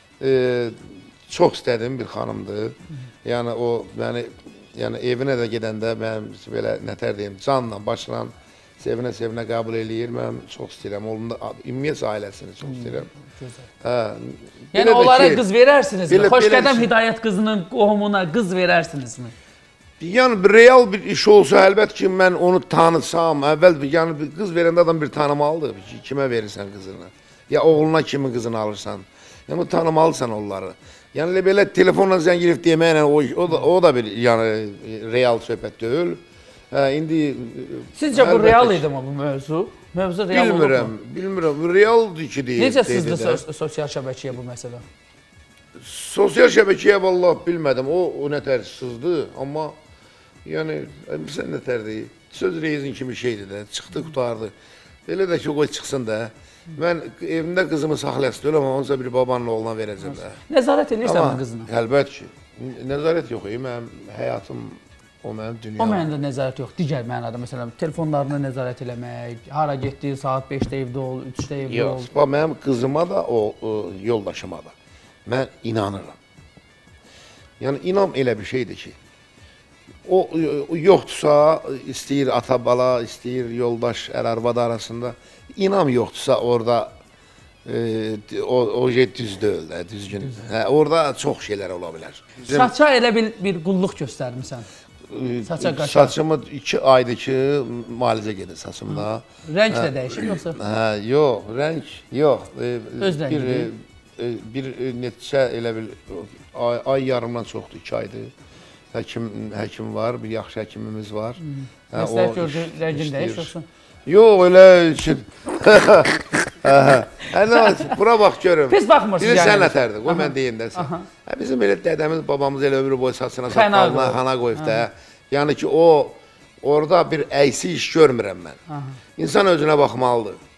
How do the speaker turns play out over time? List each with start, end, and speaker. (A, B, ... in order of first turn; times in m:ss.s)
0:00.2-0:13.1 A
0:12.6-0:13.7 B
0:13.8-0:15.4 A
0:14.7-0:19.3 B
0:16.1-0:16.9 A
0:20.0-0:38.8 A
0:38.0-0:40.9 B
0:40.3-0:43.4 A
0:42.6-0:44.8 B
0:45.8-0:49.8 A
0:50.4-0:54.5 A
0:55.1-1:00.4 A
1:00.5-1:01.7 B
1:01.0-1:06.1 A
1:05.8-1:12.1 B
1:11.7-1:14.7 A
1:15.3-1:16.2 A
1:17.6-1:19.0 A
1:20.0-1:26.9 A
1:27.7-1:32.7 A
1:32.5-1:34.7 B
1:35.1-1:48.3 A
1:35.5-1:36.2 B
1:38.9-1:40.6 B
1:43.0-1:43.7 B
1:48.9-1:51.4 A
1:51.4-1:53.6 B
1:51.9-1:53.5 A
1:54.1-2:08.6 A
1:57.6-1:57.9 B
1:58.7-2:01.1 B
2:03.5-2:04.8 B
2:08.7-2:09.0 B
2:09.2-2:10.4 A